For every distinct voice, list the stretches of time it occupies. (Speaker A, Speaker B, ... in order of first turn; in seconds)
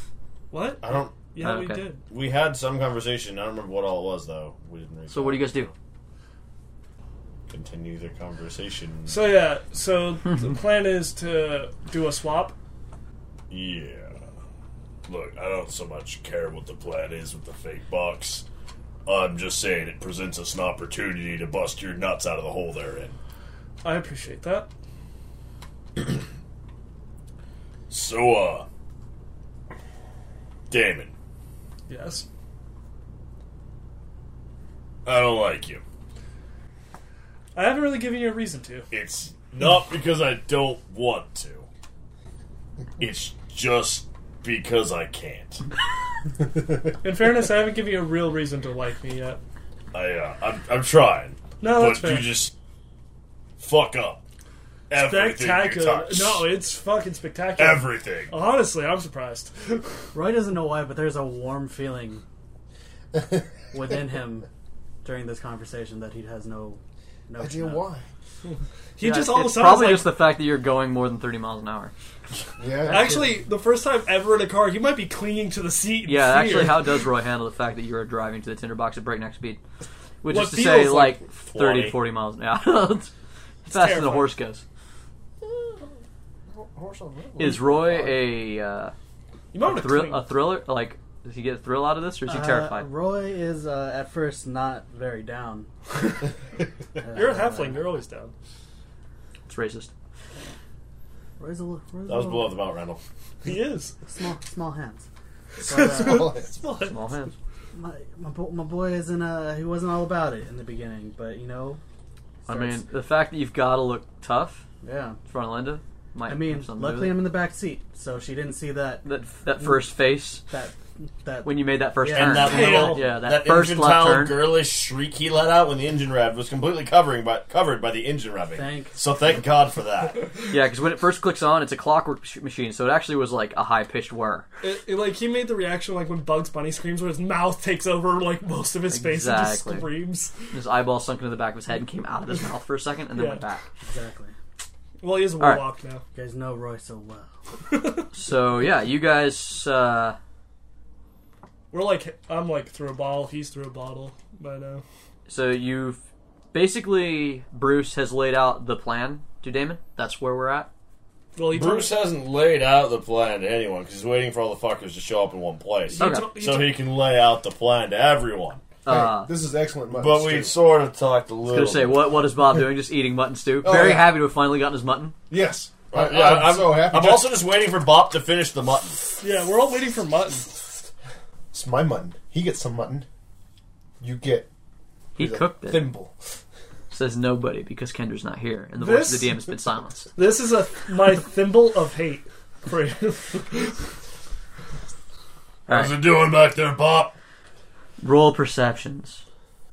Speaker A: 0.5-2.0, 9.1-12.6, 23.8-24.7, 31.9-32.2, 37.5-38.9, 47.0-49.4, 51.6-52.4, 54.9-59.8, 68.5-70.2, 72.9-77.0, 80.2-81.2, 83.7-84.3, 89.5-90.3, 97.1-98.3, 103.4-103.9, 105.6-107.0, 122.4-123.1, 134.6-140.3, 143.1-143.4, 145.0-146.0, 147.7-148.1, 151.7-154.8, 161.4-162.0, 165.9-166.8, 179.2-180.5, 188.8-189.4, 190.2-193.8
Speaker B: 0.8-1.1, 2.1-5.7, 7.5-9.2, 13.5-14.2, 15.1-18.4, 19.1-23.1, 27.9-28.6, 30.7-31.1, 35.0-35.8, 38.9-41.7, 43.0-45.6, 49.9-52.5, 53.6-54.2, 54.9-56.5, 57.5-58.4, 81.3-82.0, 102.0-103.0, 122.1-130.3, 161.5-168.6, 169.9-172.1, 175.9-179.1, 195.7-197.1
Speaker C: 1.4-1.9, 5.1-5.7, 69.0-71.9, 76.0-79.6, 80.2-83.1, 83.6-84.6, 87.4-88.9, 89.6-92.9, 99.5-99.9, 106.8-107.3, 112.5-114.6, 115.3-117.2, 119.0-120.4, 121.4-124.4, 130.5-134.4, 138.9-139.9, 140.5-143.6, 145.4-145.6, 148.1-150.2, 155.3-156.0, 156.5-160.7, 166.0-166.2, 168.8-169.3, 171.5-175.1, 185.2-185.9, 186.9-190.1, 195.7-195.9, 198.0-199.2
Speaker D: 60.1-62.2, 63.7-64.5, 65.0-67.8, 72.9-73.3, 92.2-96.1, 97.0-98.0, 101.4-102.6, 104.0-105.0, 105.6-106.4, 107.7-111.8, 112.5-112.8, 114.8-115.2, 116.3-119.0, 120.5-122.7, 128.5-128.9, 143.8-144.3, 146.1-147.3
Speaker E: 63.1-63.4, 67.4-68.1, 72.6-73.2, 85.4-85.8, 86.5-88.2, 105.9-106.5, 168.9-170.5, 173.6-174.1, 175.3-177.3, 181.5-183.1, 184.0-184.5, 185.2-186.1